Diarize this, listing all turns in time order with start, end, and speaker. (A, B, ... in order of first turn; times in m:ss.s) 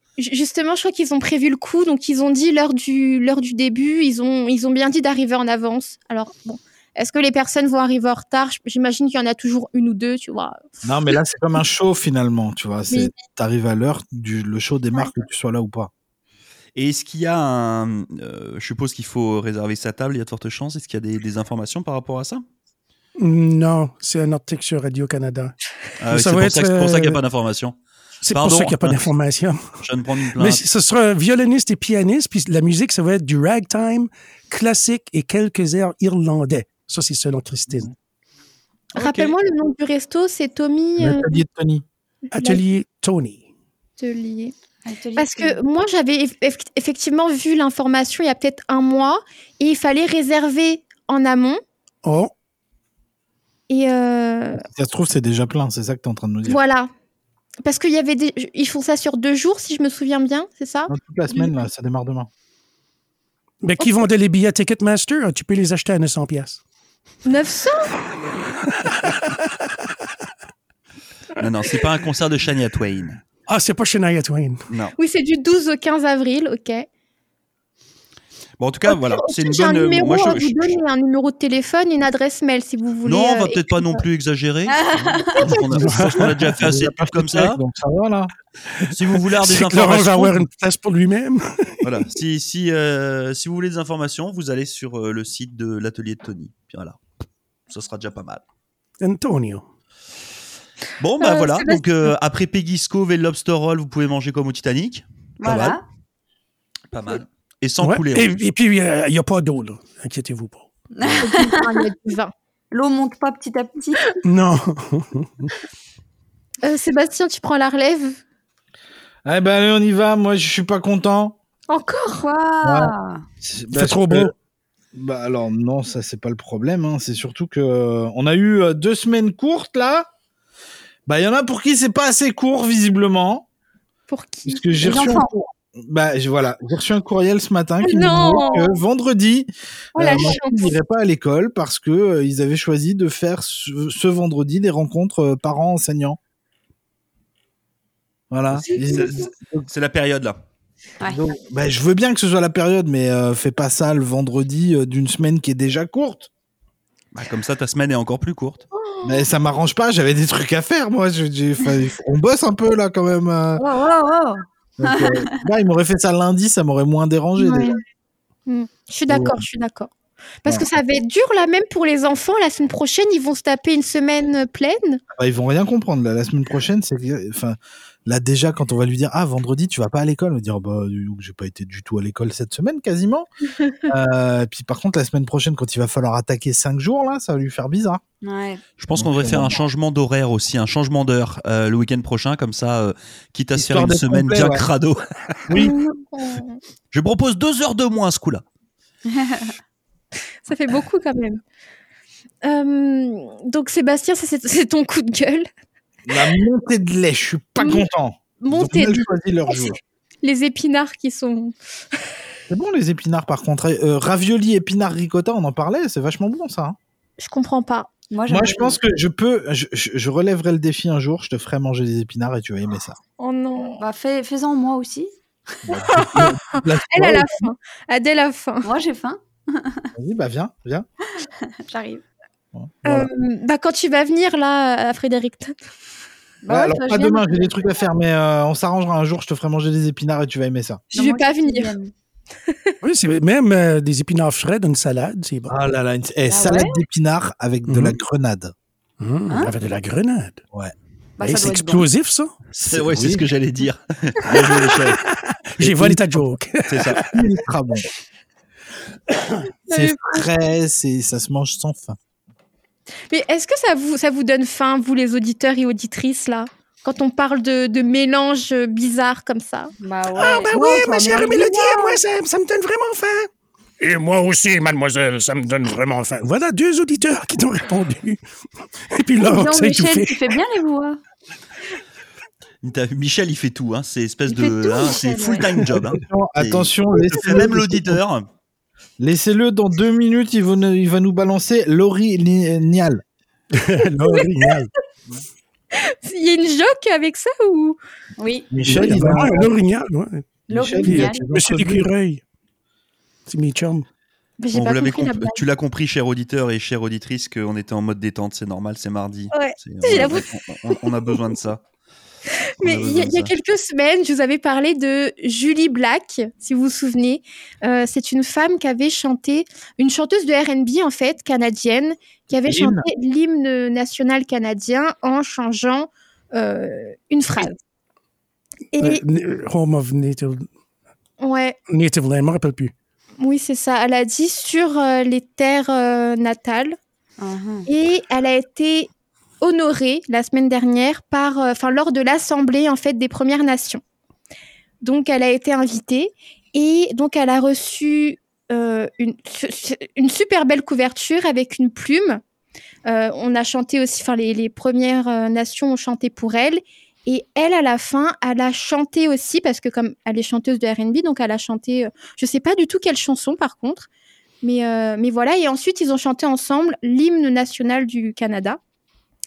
0:00.2-0:11.2 A
0:10.8-0:15.9 B
0:12.9-0:13.2 A
0:16.8-0:22.4 C
0:23.2-0:25.5 D
0:26.0-0:27.8 C
0:26.1-0:27.2 D
0:28.2-0:29.6 D
0:28.3-0:29.1 C
0:29.8-0:30.6 C
0:30.3-0:37.9 D
0:38.9-0:39.3 C
0:39.0-0:41.4 A
0:41.0-0:41.8 B
0:42.3-0:42.6 A
0:42.3-0:43.4 D
0:44.0-0:44.5 A
0:44.8-0:45.6 E
0:45.2-0:51.6 A
0:52.0-0:52.3 D
0:53.7-0:54.6 A
0:54.5-0:56.6 B
0:56.4-0:56.9 A
0:57.6-1:01.6 A
1:00.9-1:02.3 B
1:03.6-1:06.6 D
1:07.2-1:08.0 A
1:08.9-1:09.3 D
1:11.4-1:13.2 C
1:13.5-1:14.6 D
1:15.0-1:16.9 A
1:18.6-1:20.8 C
1:18.9-1:24.0 A
1:23.0-1:27.6 C
1:24.7-1:25.6 E
1:25.6-1:26.6 D
1:26.6-1:28.3 B
1:28.8-1:32.0 D
1:28.9-1:30.4 C
1:31.8-1:37.0 C
1:37.7-1:38.4 C
1:39.0-1:39.6 D
1:41.0-1:45.8 C
1:41.2-1:41.8 A
1:45.4-1:45.8 E
1:46.9-1:48.4 C
1:47.8-1:50.7 D
1:51.0-1:51.7 E
1:51.2-1:52.3 A
1:52.7-1:54.2 E
1:54.2-1:55.5 D
1:56.6-1:58.2 A
1:59.2-2:01.4 B
2:01.7-2:02.3 A
2:02.1-2:03.2 E
2:02.6-2:04.3 B
2:03.7-2:04.3 D
2:04.9-2:10.1 B
2:11.1-2:13.4 B
2:14.1-2:14.8 A
2:14.5-2:26.2 B
2:14.8-2:15.5 E
2:17.8-2:18.8 A
2:20.0-2:20.7 A
2:28.3-2:29.7 B
2:28.5-2:30.4 C
2:31.0-2:36.3 B
2:37.1-2:38.6 C
2:38.7-2:39.2 A
2:39.0-2:43.6 B
2:43.6-2:45.4 E
2:44.8-2:47.7 B
2:47.4-2:47.8 A
2:48.5-2:49.9 A
2:49.1-2:49.4 B
2:50.4-2:55.0 A
2:55.1-3:03.3 B
3:03.9-3:08.0 B
3:08.2-3:08.6 E
3:08.8-3:15.6 C
3:09.0-3:09.5 B
3:13.6-3:14.6 B
3:15.5-3:15.8 B
3:15.6-3:16.6 A
3:16.9-3:18.4 C
3:19.1-3:19.5 E
3:20.5-3:21.4 A
3:22.4-3:25.5 A
3:26.1-3:29.8 B
3:27.6-3:27.9 A
3:28.4-3:31.6 A
3:32.5-3:36.8 B
3:37.2-3:37.9 A
3:38.1-3:38.8 E
3:38.3-3:43.0 B
3:43.2-3:43.8 A
3:43.8-3:45.1 E
3:45.7-3:47.5 B
3:45.7-3:48.7 A
3:48.6-3:49.9 E
3:50.0-3:50.9 B
3:51.4-3:52.0 E
3:52.5-3:53.1 B
3:52.9-3:55.6 A
3:56.4-3:57.6 E
3:56.5-4:00.8 B
4:00.9-4:01.9 E
4:00.9-4:01.8 A
4:02.5-4:02.8 A
4:02.8-4:05.5 D
4:05.5-4:08.5 B
4:06.3-4:06.8 E
4:07.7-4:08.0 D
4:09.0-4:10.4 D
4:11.2-4:11.9 E
4:11.2-4:12.3 D
4:12.5-4:15.0 C
4:12.7-4:13.2 B
4:14.5-4:17.2 D
4:15.6-4:16.3 B
4:16.7-4:17.0 C
4:17.1-4:17.9 B
4:19.7-4:20.2 A
4:19.7-4:22.0 B
4:23.1-4:29.7 A
4:29.8-4:32.0 E
4:30.2-4:33.3 D
4:33.8-4:38.2 D
4:38.9-4:40.3 D
4:39.2-4:41.0 E
4:42.6-4:48.3 C
4:44.3-4:45.5 E
4:45.7-4:48.0 B
4:49.0-4:53.0 B
4:53.6-4:54.7 D
4:56.0-4:57.8 A
4:58.2-4:58.5 E
4:58.5-4:59.5 B
4:58.6-5:02.2 D
5:00.5-5:01.2 E
5:00.5-5:01.9 B
5:03.3-5:03.8 D
5:04.4-5:05.4 A
5:04.5-5:11.6 C
5:09.3-5:11.2 A
5:12.6-5:27.6 A
5:12.6-5:13.3 C
5:22.4-5:22.8 B
5:28.7-5:29.0 A
5:28.8-5:30.5 D
5:31.2-5:31.6 A
5:31.7-5:32.7 D
5:33.2-5:36.8 A
5:37.2-5:37.7 E
5:37.7-5:38.9 A
5:39.4-5:43.8 A
5:44.8-5:52.2 A
5:52.9-6:03.9 A
6:04.4-6:08.6 A